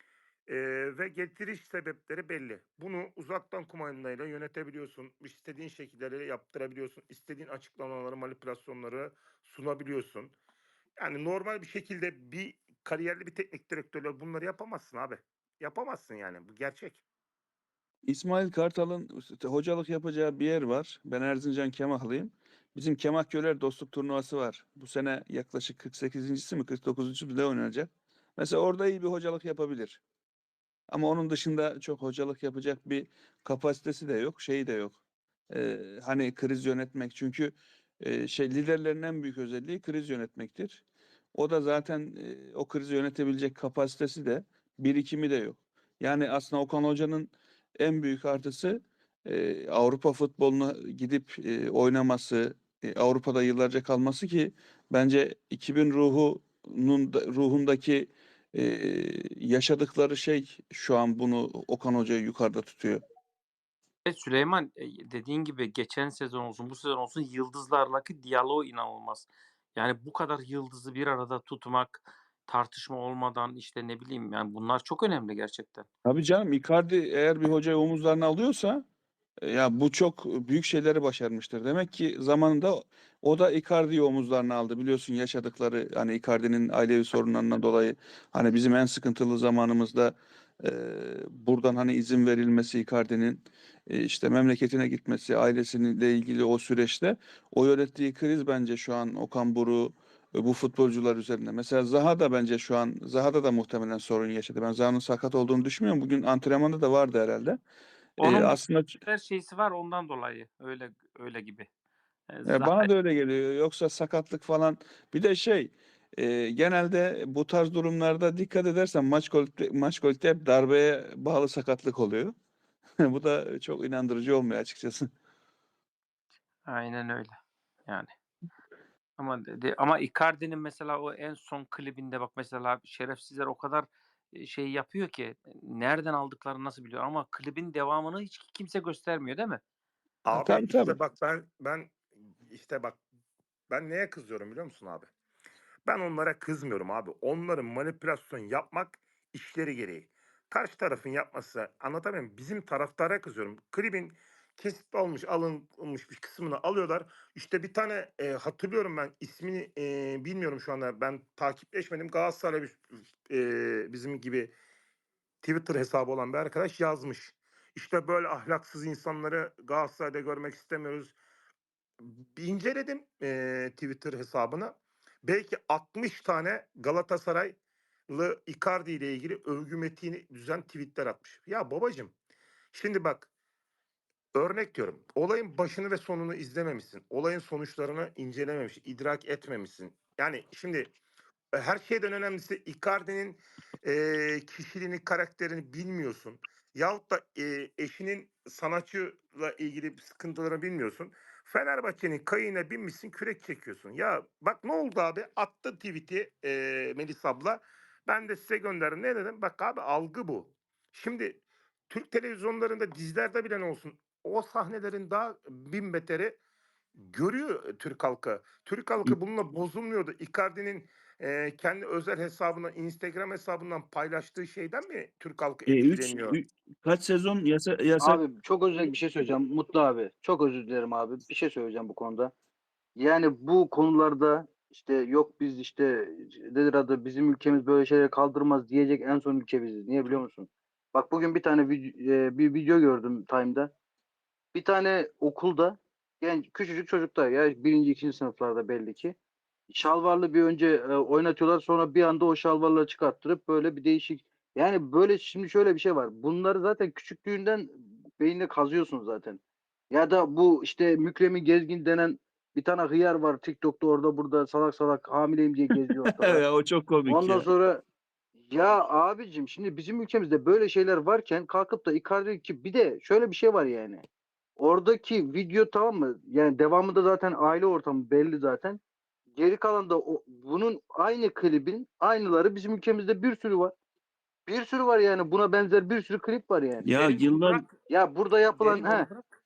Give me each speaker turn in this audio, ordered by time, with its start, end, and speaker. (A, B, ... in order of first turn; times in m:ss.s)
0:00.5-0:10.4 A
0:11.0-0:17.0 A
0:18.1-0:30.0 B
0:30.9-0:40.8 B
0:41.4-1:03.0 B
1:04.0-1:15.9 C
1:16.0-1:18.8 B
1:19.4-1:47.6 B
1:48.2-1:49.0 B
1:48.2-1:51.7 C
1:52.3-1:52.9 C
1:52.5-2:02.3 B
2:03.0-2:05.1 B
2:06.7-2:08.1 C
2:09.2-2:19.6 C
2:20.2-2:22.0 A
2:20.3-2:21.0 B
2:22.5-2:23.0 A
2:23.7-2:25.1 A
2:25.9-2:44.5 A
2:45.4-2:51.2 A
2:52.0-2:57.6 A
2:58.1-3:02.2 A
3:02.7-3:03.3 A
3:04.3-3:10.9 A
3:11.6-3:36.4 A
3:37.0-3:46.4 A
3:45.7-3:48.2 B
3:48.0-3:52.3 D
3:53.0-4:03.7 D
4:04.5-4:09.2 D
4:09.7-4:19.4 D
4:19.9-4:26.4 D
4:25.8-4:27.5 B
4:27.1-4:27.8 D
4:28.4-4:34.0 D
4:34.6-4:38.8 D
4:39.3-4:43.7 D
4:44.5-4:46.9 D
4:46.8-4:47.6 B
4:46.9-4:47.8 C
4:47.9-4:49.1 D
4:48.4-4:49.2 C